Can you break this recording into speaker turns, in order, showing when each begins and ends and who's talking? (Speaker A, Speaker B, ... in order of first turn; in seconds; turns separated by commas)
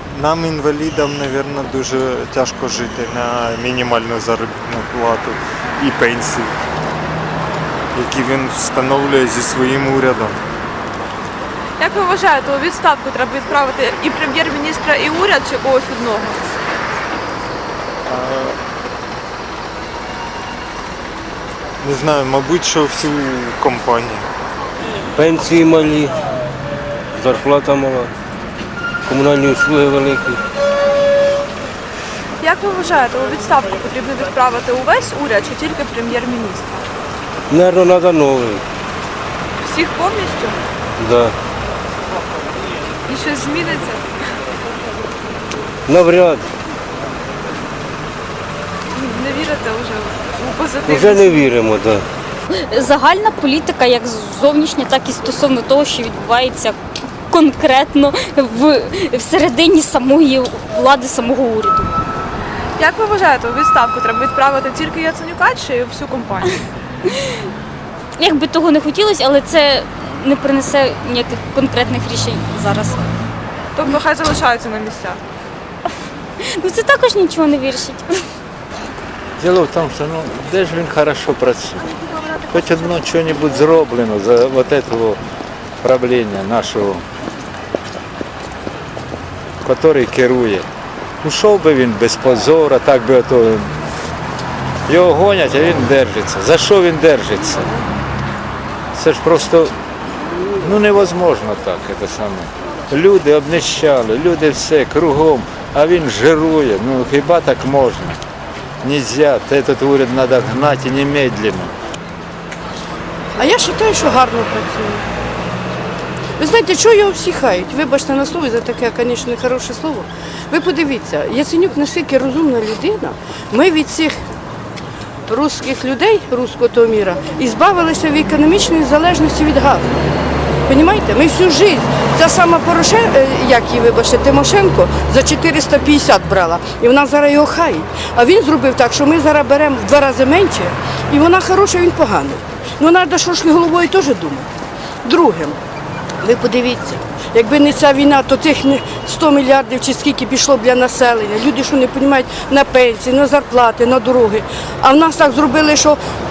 Speaker A: 0.1-6.6, Speaker A: 7.9-10.4, Speaker B: 11.8-16.4, Speaker A: 18.1-18.6, Speaker A: 21.8-24.3, Speaker C: 25.1-26.2, Speaker C: 27.1-28.1, Speaker C: 29.1-30.4, Speaker B: 32.4-36.8, Speaker C: 37.5-38.6, Speaker B: 39.6-40.6, Speaker C: 41.0-41.4, Speaker B: 43.1-44.0, Speaker C: 45.9-46.5, Speaker B: 49.0-51.5, Speaker C: 50.9-52.0, Speaker D: 52.6-56.6, Speaker D: 57.3-61.9, Speaker B: 62.8-66.6, Speaker D: 68.2-73.0, Speaker B: 73.8-75.2, Speaker D: 76.7-78.0, Speaker E: 79.4-81.9, Speaker E: 82.4-85.2, Speaker E: 85.8-87.0, Speaker E: 89.6-90.7, Speaker E: 91.2-93.7, Speaker E: 94.9-97.7, Speaker E: 99.0-99.7, Speaker E: 100.6-108.2, Speaker E: 108.8-111.7, Speaker F: 113.3-115.1, Speaker F: 116.4-124.2, Speaker F: 125.3-129.9, Speaker F: 130.7-144.5, Speaker F: 145.0-145.6, Speaker F: 146.2-156.0